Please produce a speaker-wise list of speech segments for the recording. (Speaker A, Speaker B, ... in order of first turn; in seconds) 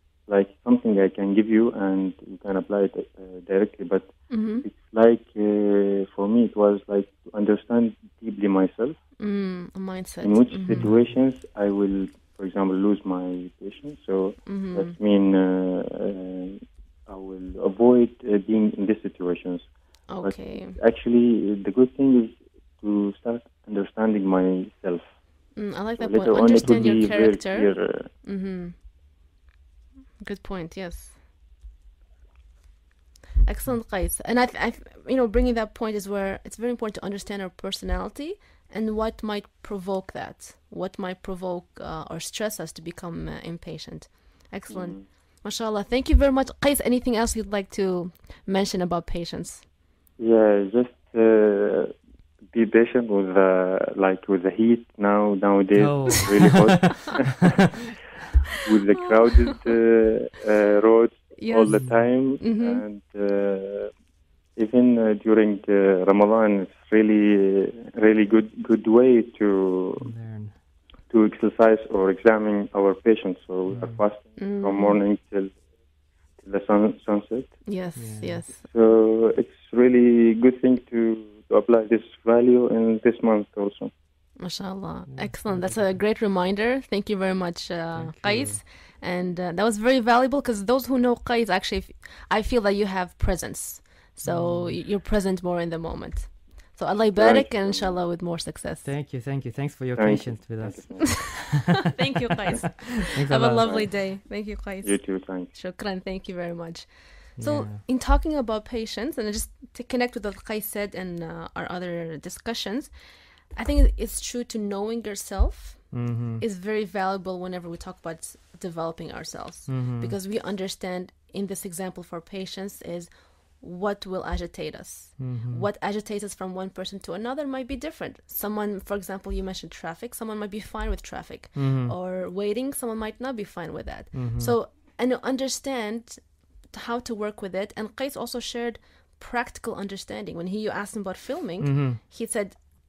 Speaker A: 0.3-9.0, 10.2-19.7, 20.2-25.1, 26.0-28.1, 44.7-45.0, 50.2-51.9, 52.5-57.5, 58.6-63.9, 64.5-70.1, 71.1-75.6, 76.4-77.6, 78.6-83.9, 97.1-98.0, 100.0-101.9, 103.6-104.0, 104.8-105.5
Speaker B: 4.3-4.6, 9.2-10.8, 14.5-14.9, 20.1-20.8, 25.6-28.7, 30.2-31.1, 33.4-49.6, 61.4-61.8, 62.4-62.8, 74.4-75.0, 77.7-78.5, 84.4-98.9, 101.9-112.9, 113.5-123.1, 123.6-142.6
Speaker C: 10.7-11.0, 26.6-27.1, 33.4-33.8, 55.7-57.1, 61.7-62.0, 70.0-70.5, 73.7-74.0, 78.0-78.4, 85.1-86.0, 87.9-88.6, 94.2-94.8, 98.8-101.8, 103.1-103.7, 107.4-107.8, 115.9-116.4, 119.7-120.2, 125.2-125.7, 131.5-131.9, 134.1-134.5, 141.6-142.0